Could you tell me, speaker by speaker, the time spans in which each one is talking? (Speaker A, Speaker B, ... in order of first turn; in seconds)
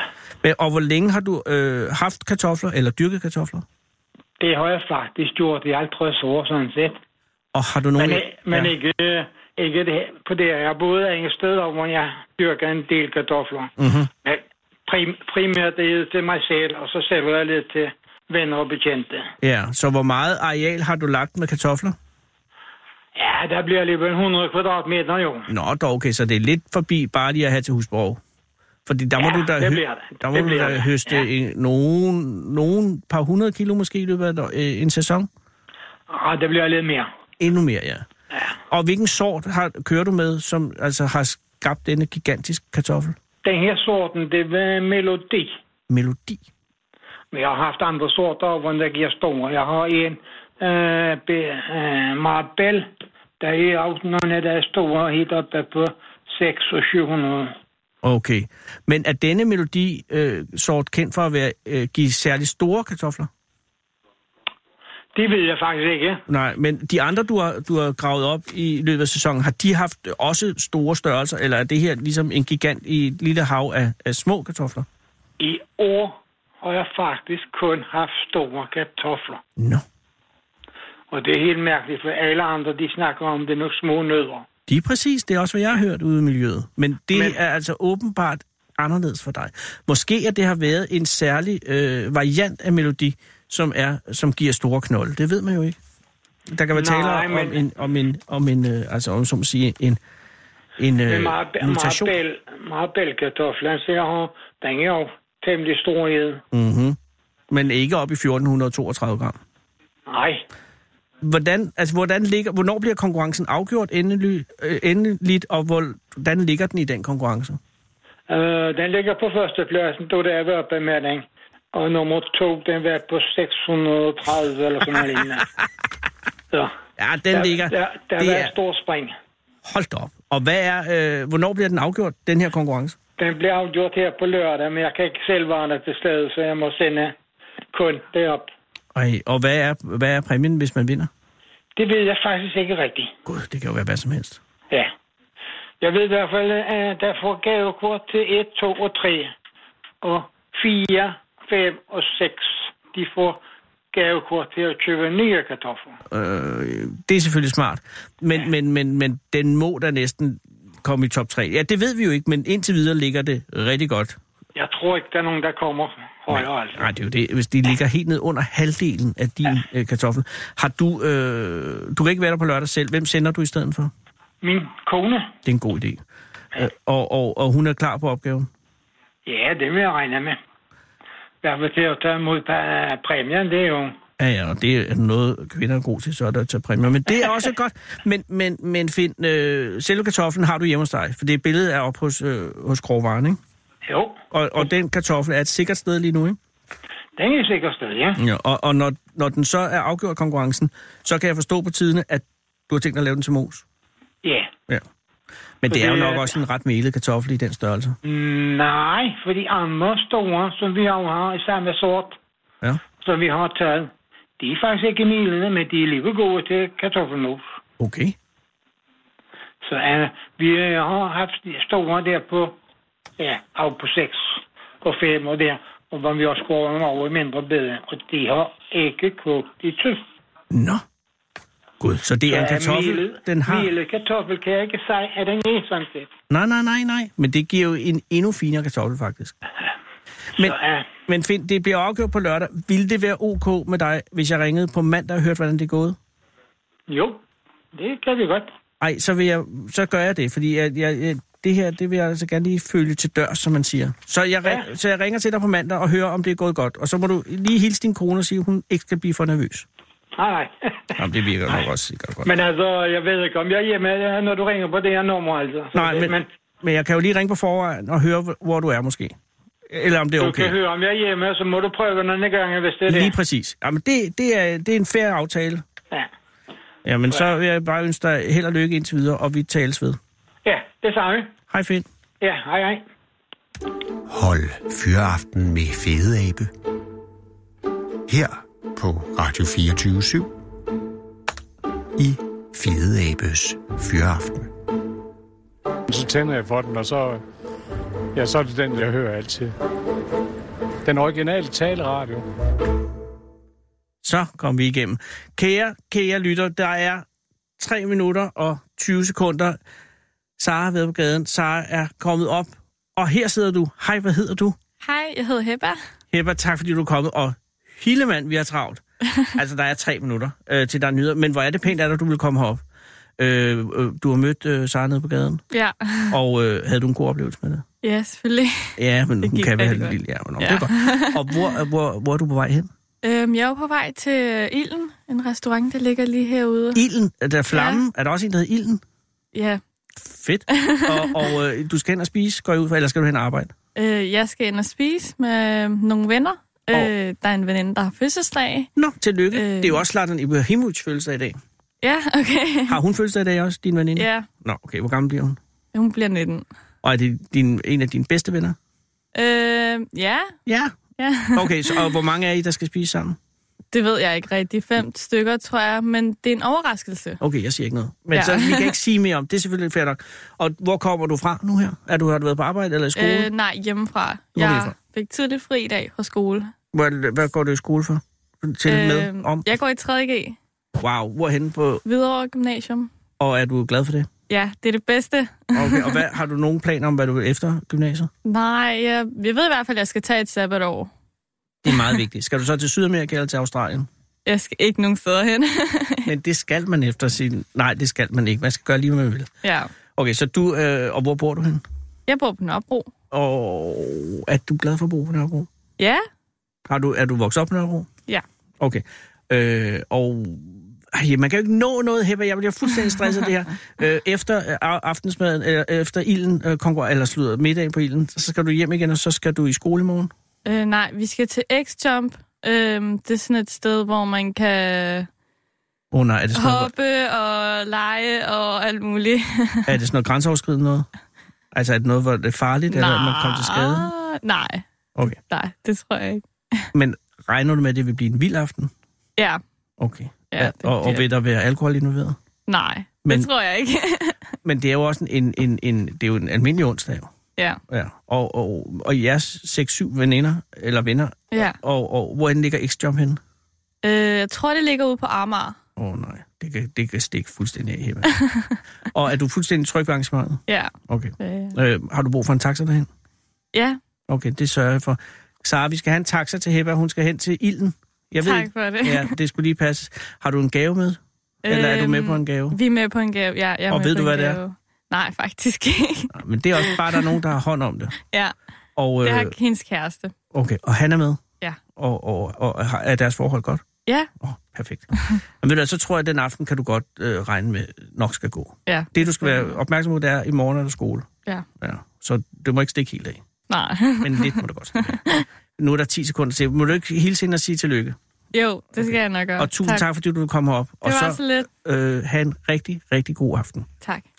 Speaker A: 0.4-3.6, 7.5-8.7, 13.8-14.1, 19.4-21.9, 25.5-28.2, 28.9-35.3, 37.4-38.0, 38.7-43.1, 45.9-46.4, 58.0-63.3, 66.3-74.8, 79.6-79.8, 84.7-95.8, 96.5-100.0, 100.8-102.2, 106.5-107.0, 107.5-109.4, 111.2-117.6, 127.0-128.5, 129.6-133.0, 138.9-141.1, 143.2-144.4, 156.1-164.2, 166.3-173.9, 175.4-176.0, 176.5-178.5, 184.2-193.4, 194.3-196.4, 198.2-203.6, 205.6-208.0, 217.8-218.2, 230.5-230.8, 231.8-233.7, 236.3-239.3, 240.3-246.0, 248.8-259.7, 261.0-262.3, 265.7-269.1, 269.7-270.6, 272.9-275.6, 276.8-280.0, 281.5-281.9, 304.0-307.0, 307.6-309.6, 310.4-314.6, 316.1-322.6, 323.2-325.4, 326.1-327.6, 328.8-332.7, 336.7-338.8, 339.9-343.5, 348.8-351.4, 352.7-355.4, 356.8-358.6, 360.4-360.7, 361.3-363.2, 367.2-373.3, 374.3-374.7, 376.7-379.5, 380.8-381.8, 383.2-384.1, 385.5-388.1, 391.6-393.9, 396.1-399.3, 399.9-401.6, 403.1-405.5, 406.7-407.9, 408.6-420.1, 425.9-426.7, 429.7-430.9, 431.5-433.9, 436.7-438.7, 439.8-442.2, 444.4-447.1, 447.7-453.2, 455.8-458.1, 458.9-462.9, 464.1-472.6, 473.7-474.4, 476.1-477.9, 478.8-479.3, 480.3-481.2, 481.8-483.7, 484.2-491.1, 491.6-493.2, 494.0-497.9, 498.8-503.7
Speaker B: 4.4-7.0, 8.0-13.7, 14.2-19.3, 23.1-25.5, 29.2-31.3, 36.1-37.1, 43.4-45.6, 47.3-57.5, 65.1-66.2, 75.4-79.4, 81.1-84.5, 87.1-87.4, 96.7-97.6, 101.1-106.4, 110.1-110.5, 118.3-125.5, 127.3-129.1, 133.2-137.2, 137.7-138.5, 141.8-143.1, 145.8-149.3, 150.0-153.4, 153.9-156.0, 164.5-166.9, 174.4-175.3, 179.2-180.4, 181.4-183.9, 193.9-194.2, 197.2-198.2, 204.2-204.5, 205.7-206.4, 208.0-212.2, 213.0-217.4, 219.6-222.5, 223.2-230.0, 232.3-236.1, 240.4-240.9, 246.9-247.2, 247.7-248.5, 260.1-261.6, 262.2-266.3, 270.2-273.1, 280.4-281.3, 282.2-282.8
Speaker C: 284.1-286.5, 288.1-290.3, 292.0-294.5
Speaker D: 295.9-297.2, 298.1-299.5, 300.8-302.2
Speaker E: 314.8-315.8, 325.5-326.2, 327.8-331.5, 333.0-336.8, 337.5-337.8, 339.3-339.6, 340.5-341.3, 343.8-348.7, 349.3-349.8, 351.8-352.8, 353.9-354.2, 355.7-356.4, 359.1-360.3, 361.0-361.9, 363.7-367.2, 368.1-368.7, 372.9-376.5, 378.7-380.4, 381.8-382.9, 384.3-386.0, 388.2-390.9, 391.7-392.0, 394.2-396.1, 399.4-399.7, 402.1-402.9, 405.8-406.1, 420.4-425.1, 426.3-429.8, 432.7-434.6, 435.3-436.7, 440.3-441.0, 442.5-444.3, 451.3-451.6, 453.8-455.6, 458.0-458.6, 460.5-461.5, 463.5-463.8, 468.2-469.1, 471.4-477.1, 478.0-478.3, 479.0-480.1, 488.7-489.6, 493.5-495.2, 498.3-499.8, 500.8-501.5